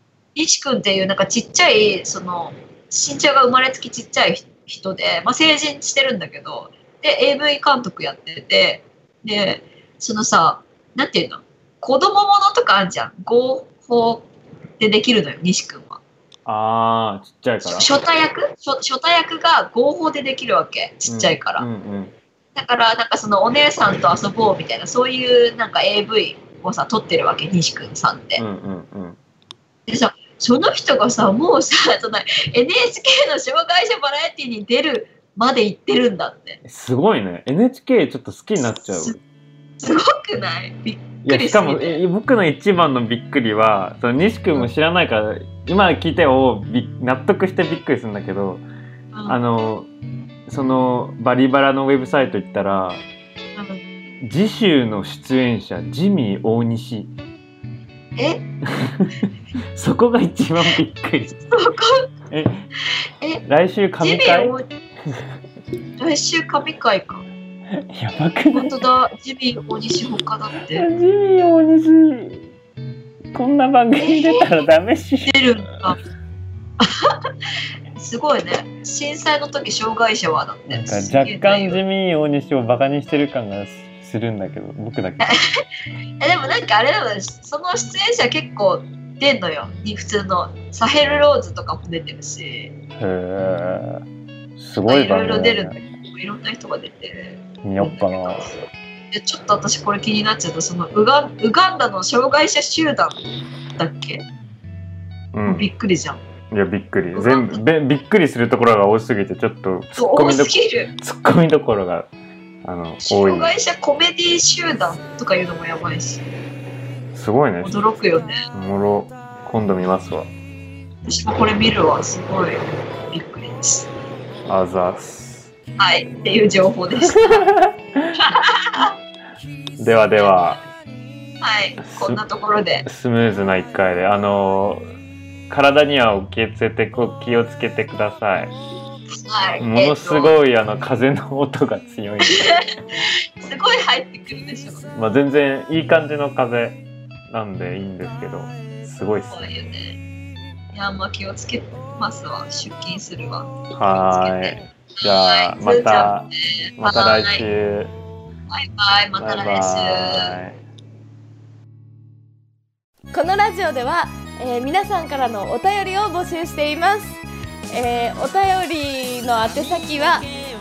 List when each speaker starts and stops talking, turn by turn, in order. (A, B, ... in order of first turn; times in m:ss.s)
0:00.3-0:16.0 A
0:16.4-0:17.9 B
0:17.6-0:21.6 A
0:21.0-0:22.1 B
0:22.5-0:28.4 A
0:28.4-0:29.2 B
0:29.9-0:36.6 A
0:36.6-0:39.2 B
0:38.6-0:39.2 A
0:39.8-0:42.0 A
0:41.2-0:48.6 B
0:49.1-0:49.4 A
0:49.2-0:49.9 B
0:50.5-0:53.0 B
0:53.6-0:53.8 A
0:54.2-0:57.1 B
0:58.2-0:58.4 A
0:58.7-1:01.4 B
1:01.5-1:02.1 A
1:02.3-1:02.6 B
1:03.4-1:04.6 B
1:04.0-1:04.7 A
1:06.0-1:07.2 A
1:07.8-1:08.8 B
1:08.5-1:10.8 A
1:10.7-1:12.5 B
1:13.3-1:15.4 B
1:14.0-1:14.5 A
1:15.3-1:16.0 A
1:16.8-1:17.1 A
1:17.9-1:21.8 A
1:20.7-1:25.3 B
1:26.2-1:32.7 A
1:33.0-1:34.0 B
1:34.6-1:35.8 B
1:34.8-1:38.6 A
1:37.6-1:38.5 B
1:39.1-1:43.2 A
1:43.8-1:44.2 A
1:45.3-1:45.7 B
1:45.4-1:46.2 A
1:46.5-1:52.1 B
1:47.1-1:47.6 A
1:50.0-1:50.9 A
1:52.6-1:53.5 B
1:53.0-1:56.2 A
1:57.1-1:57.8 B
1:57.6-1:58.4 A
1:58.5-2:00.3 B
2:01.0-2:03.9 A
2:04.4-2:05.5 B
2:05.8-2:07.5 A
2:07.0-2:08.1 B
2:08.2-2:08.9 A
2:09.8-2:10.6 B
2:11.4-2:12.8 A
2:11.8-2:12.2 B
2:12.8-2:14.8 B
2:15.5-2:18.5 B
2:19.2-2:20.4 A
2:19.6-2:22.6 B
2:22.3-2:24.9 A
2:24.9-2:29.4 B
2:29.3-2:30.0 A
2:30.7-2:37.4 A
2:33.7-2:37.9 B
2:38.5-2:40.3 A
2:39.2-2:40.6 B
2:43.1-2:47.2 C
2:47.7-2:50.2 C